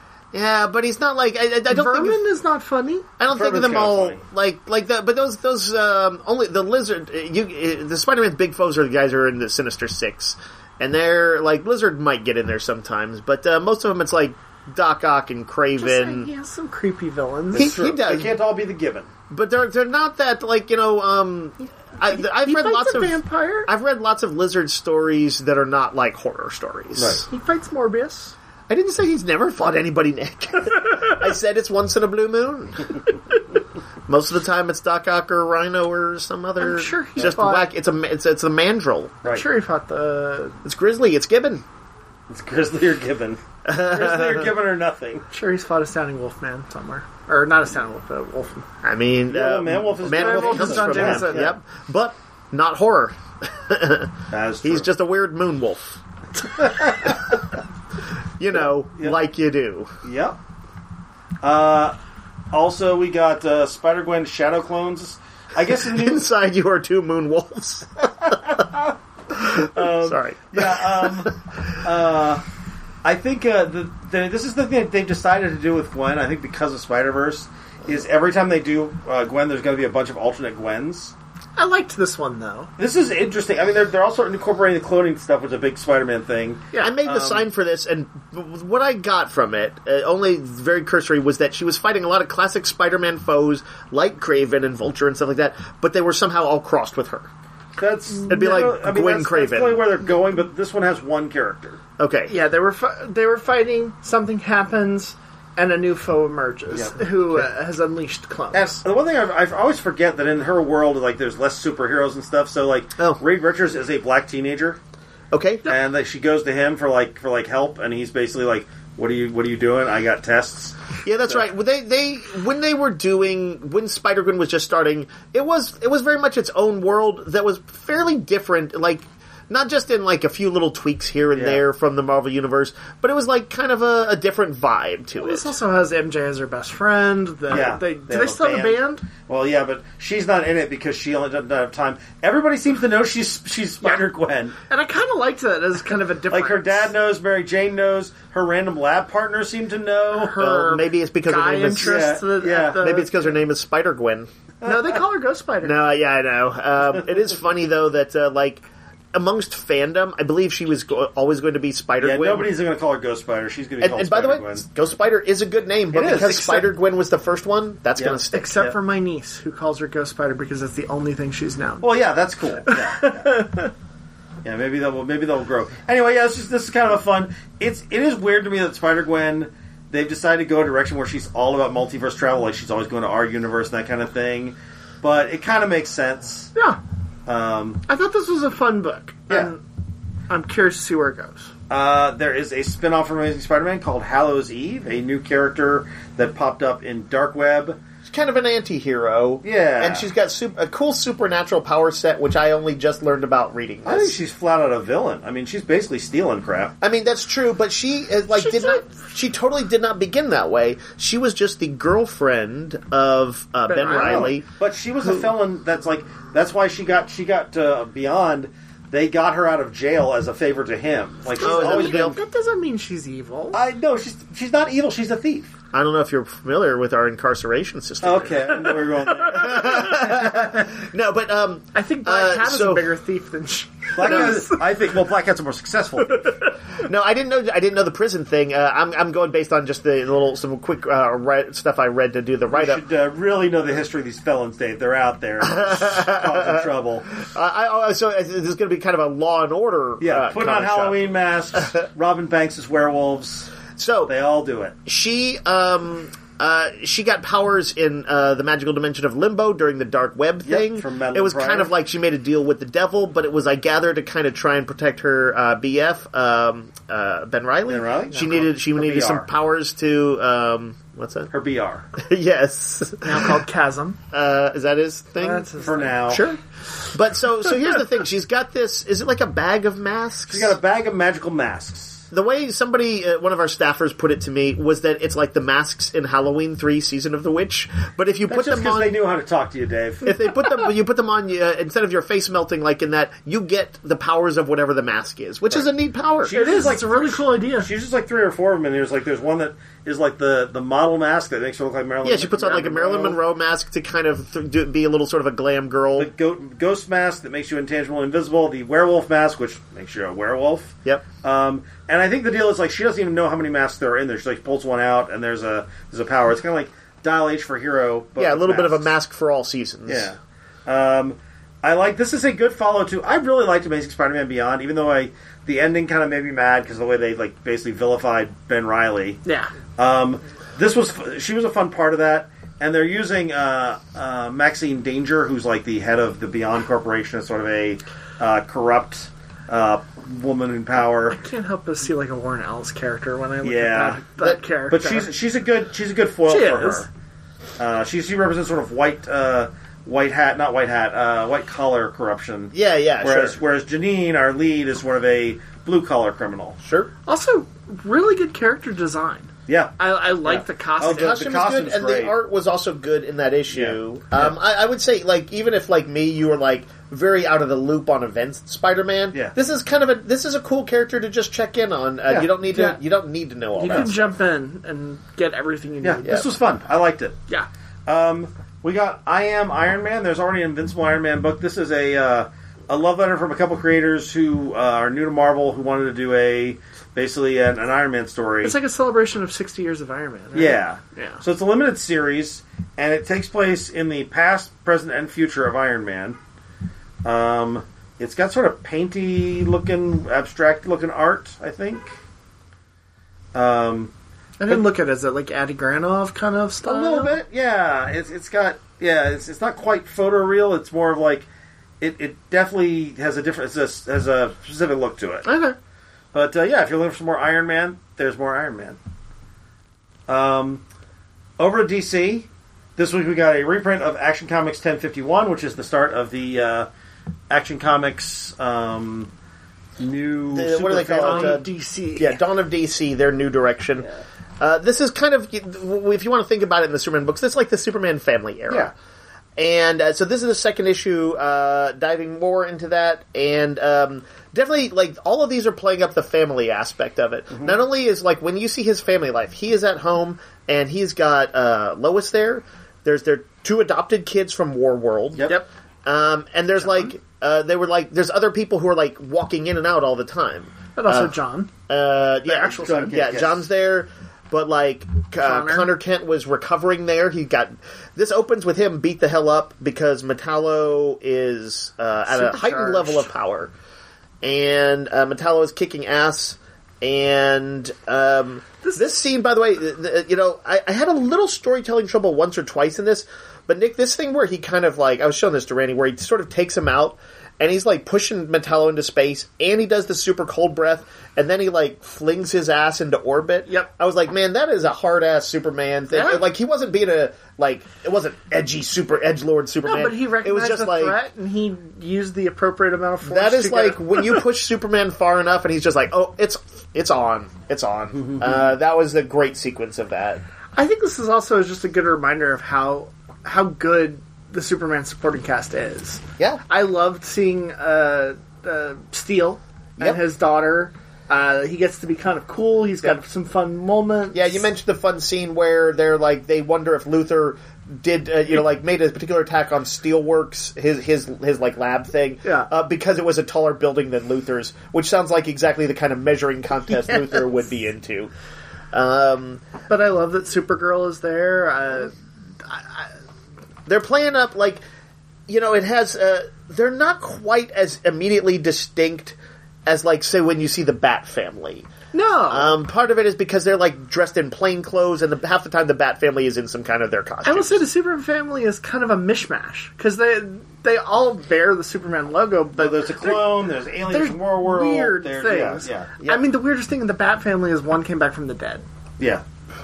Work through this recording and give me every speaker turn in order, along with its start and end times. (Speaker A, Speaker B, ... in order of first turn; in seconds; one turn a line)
Speaker A: 0.3-2.2
Speaker B: 1.7-3.0
Speaker A: 3.2-16.3
Speaker C: 3.3-4.2
Speaker B: 15.8-17.7
Speaker A: 17.5-18.3
Speaker C: 17.5-19.1
Speaker A: 19.3-27.2
Speaker B: 22.1-23.7
Speaker C: 26.9-27.2
Speaker B: 27.3-28.3
Speaker A: 28.7-33.1
Speaker A: 34.1-39.2
Speaker B: 36.6-37.7
Speaker B: 39.2-40.6
Speaker A: 40.6-41.6
Speaker C: 42.3-45.2
Speaker A: 43.6-44.5
Speaker B: 45.3-48.7
Speaker A: 48.8-55.8
Speaker C: 49.3-51.5
Speaker B: 50.1-51.5
Speaker C: 54.3-54.9
Speaker C: 56.5-57.4
Speaker A: 58.4-59.9
Speaker C: 60.0-60.4
Speaker C: 61.4-62.0
Speaker C: 62.5-66.2
Speaker A: 65.8-68.6
Speaker C: 68.3-68.9
Speaker A: 69.3-71.3
Speaker C: 69.5-72.4
Speaker C: 73.0-81.1
Speaker B: 81.5-82.7
Speaker C: 82.8-87.5
Speaker A: 86.8-97.3
Speaker C: 97.8-101.8
Speaker A: 98.3-99.8
Speaker A: 102.0-102.3
Speaker B: 102.3-108.8
Speaker C: 108.5-114.8
Speaker A: 115.3-115.7
Speaker C: 115.7-121.4
Speaker A: 121.0-135.5
Speaker C: 131.3-131.6
Speaker B: 135.2-139.0
Speaker C: 137.5-144.6
Speaker B: 144.7-146.9
Speaker C: 146.3-150.4
Speaker B: 150.1-153.1
Speaker A: 150.3-152.2
Speaker C: 151.8-152.9
Speaker A: 152.7-154.3
Speaker B: 154.6-155.8
Speaker A: 155.6-162.5
Speaker C: 162.0-164.7
Speaker A: 163.8-168.7
Speaker C: 165.9-166.5
Speaker B: 166.0-166.7
Speaker C: 168.0-168.7
Speaker B: 168.3-171.9
Speaker C: 171.8-173.4
Speaker B: 172.7-173.7
Speaker C: 174.4-186.5
Speaker B: 186.5-186.8
Speaker C: 187.2-187.8
Speaker B: 187.9-189.6
Speaker B: 190.3-191.5
Speaker C: 191.7-197.8
Speaker A: 198.0-204.2
Speaker C: 199.4-200.1
Speaker C: 203.8-206.7
Speaker A: 206.8-214.4
Speaker B: 208.3-208.9
Speaker B: 213.7-214.4
Speaker C: 213.8-222.2
Speaker A: 215.0-215.3
Speaker B: 221.4-223.6
Speaker A: 221.4-222.2
Speaker C: 223.5-225.5
Speaker A: 225.7-232.9
Speaker C: 228.0-230.7
Speaker B: 229.1-229.8
Speaker B: 231.7-234.7
Speaker C: 233.9-236.4
Speaker A: 234.1-234.3
Speaker B: 236.1-236.5
Speaker A: 236.8-242.8
Speaker C: 242.5-247.1
Speaker A: 245.4-251.7
Speaker C: 250.0-253.5
Speaker A: 253.8-254.1
Speaker C: 254.0-254.8
Speaker A: 254.8-271.3
Speaker C: 260.4-261.7
Speaker C: 267.6-269.3
Speaker C: 271.3-271.9
Speaker A: 271.9-273.4
Speaker B: 273.0-274.0
Speaker A: 274.1-275.5
Speaker B: 275.2-276.0
Speaker C: 275.6-276.2
Speaker A: 276.0-280.6
Speaker C: 280.3-282.0
Speaker A: 282.1-288.9
Speaker C: 288.3-290.1
Speaker A: 290.0-296.7
Speaker C: 296.2-303.2
Speaker B: 296.3-297.7
Speaker A: 302.0-306.1
Speaker C: 305.9-318.9
Speaker A: 318.1-320.1
Speaker C: 319.9-329.2
Speaker B: 329.2-329.5
Speaker C: 329.8-341.2
Speaker B: 341.1-345.1
Speaker C: 343.4-344.0
Speaker C: 344.7-346.9
Speaker B: 346.3-346.9
Speaker C: 347.6-356.6
Speaker A: 352.5-353.4
Speaker A: 356.6-356.9
Speaker B: 357.1-361.2
Speaker C: 359.5-362.1
Speaker A: 360.8-374.0
Speaker C: 363.5-364.4
Speaker B: 372.4-372.8
Speaker B: 373.6-376.3
Speaker C: 373.6-373.9
Speaker C: 375.8-377.2
Speaker C: 377.9-388.5
Speaker B: 388.4-391.2
Speaker C: 390.3-396.2
Speaker C: 397.0-401.9
Speaker C: 403.3-403.9
Speaker B: 404.4-407.1
Speaker C: 406.6-411.3
Speaker C: 411.8-415.2
Speaker B: 415.2-415.6
Speaker C: 416.1-418.8
Speaker C: 420.1-420.6
Speaker C: 421.4-426.7
Speaker C: 427.3-429.1
Speaker C: 429.8-431.4
Speaker A: 430.3-433.9
Speaker B: 430.9-432.2
Speaker A: 434.4-438.7
Speaker A: 439.4-455.3
Speaker A: 455.8-461.1
Speaker B: 460.8-461.5
Speaker A: 461.7-473.5
Speaker C: 462.3-463.4
Speaker B: 462.5-462.9
Speaker B: 465.2-465.7
Speaker B: 472.1-473.1
Speaker A: 474.2-501.0
Speaker B: 478.6-478.9
Speaker B: 495.9-496.3
Speaker B: 499.6-504.2
Speaker A: 503.0-510.2
Speaker C: 507.9-508.3
Speaker B: 510.5-524.4
Speaker A: 524.1-538.1
Speaker A: 538.7-539.4
Speaker B: 539.7-542.9
Speaker A: 543.7-544.6
Speaker A: 545.3-551.7
Speaker B: 551.9-552.6
Speaker A: 552.3-557.6
Speaker B: 557.2-568.6
Speaker C: 562.6-565.9